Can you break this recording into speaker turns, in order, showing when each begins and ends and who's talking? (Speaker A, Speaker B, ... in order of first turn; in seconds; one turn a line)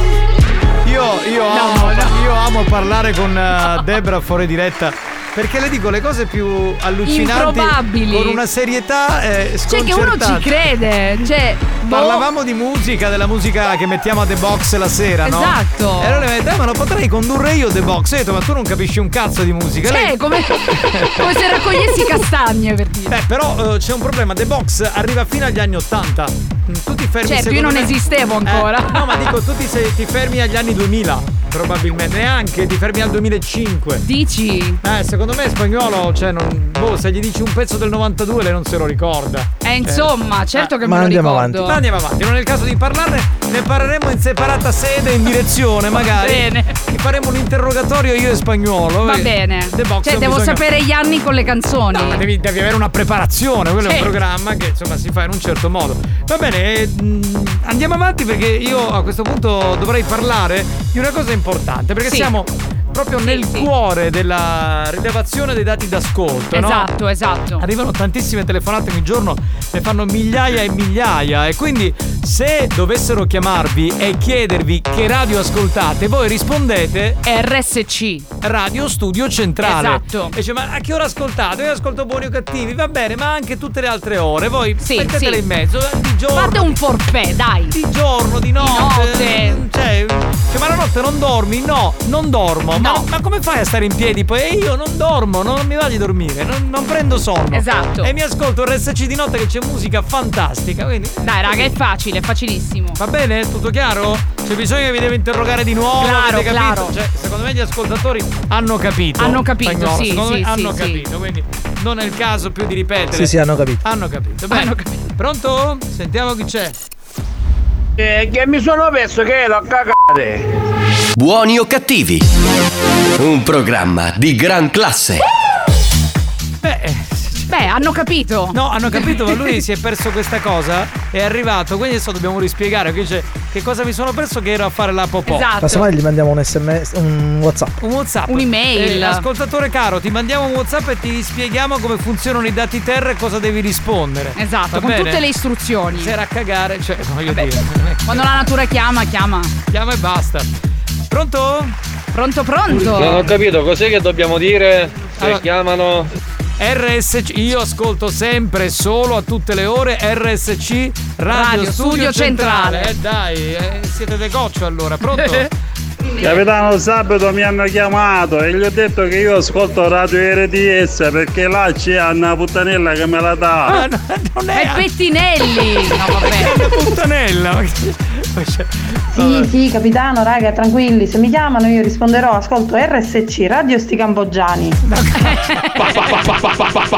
Speaker A: 0.8-10.5
Speaker B: 1.5-2.2
Speaker B: 7.1-8.4
Speaker B: 9.7-12.3
Speaker A: 11.9-20.1
Speaker B: 15.2-16.3
Speaker B: 19.9-23.1
Speaker A: 20.7-21.4
Speaker A: 23.1-27.9
Speaker B: 27.3-29.3
Speaker A: 28.4-34.0
Speaker B: 34.0-34.8
Speaker A: 34.8-40.7
Speaker B: 39.6-41.8
Speaker C: 40.8-41.8
Speaker A: 41.6-50.6
Speaker B: 46.0-46.7
Speaker B: 49.0-52.2
Speaker A: 51.9-66.9
Speaker B: 53.8-54.1
Speaker B: 62.0-62.3
Speaker B: 63.2-63.7
Speaker B: 66.5-67.6
Speaker A: 67.6-77.2
Speaker B: 77.2-78.3
Speaker A: 78.4-86.8
Speaker B: 79.6-80.3
Speaker B: 84.8-85.4
Speaker B: 86.4-87.8
Speaker A: 87.7-101.7
Speaker B: 88.6-89.6
Speaker B: 92.8-93.0
Speaker B: 97.5-98.1
Speaker B: 101.2-103.0
Speaker A: 103.0-116.8
Speaker B: 106.0-106.9
Speaker B: 109.2-111.0
Speaker C: 113.1-113.8
Speaker B: 114.5-115.0
Speaker D: 121.2-122.3
Speaker D: 123.2-125.2
Speaker A: 126.6-127.5
Speaker B: 127.5-129.5
Speaker A: 128.5-135.8
Speaker B: 135.3-135.9
Speaker C: 135.6-137.7
Speaker A: 137.8-145.2
Speaker B: 138.3-139.2
Speaker B: 144.4-146.1
Speaker A: 145.9-148.3
Speaker B: 147.3-147.6
Speaker B: 148.1-149.5
Speaker A: 149.7-150.5
Speaker A: 151.1-151.8
Speaker B: 152.1-153.3
Speaker E: 152.7-156.1
Speaker A: 155.2-155.4
Speaker A: 156.6-165.5
Speaker B: 161.3-162.9
Speaker F: 166.2-173.8
Speaker A: 173.7-174.8
Speaker B: 174.5-176.7
Speaker A: 176.2-179.5
Speaker G: 179.2-184.8
Speaker A: 184.8-186.3
Speaker B: 185.2-186.2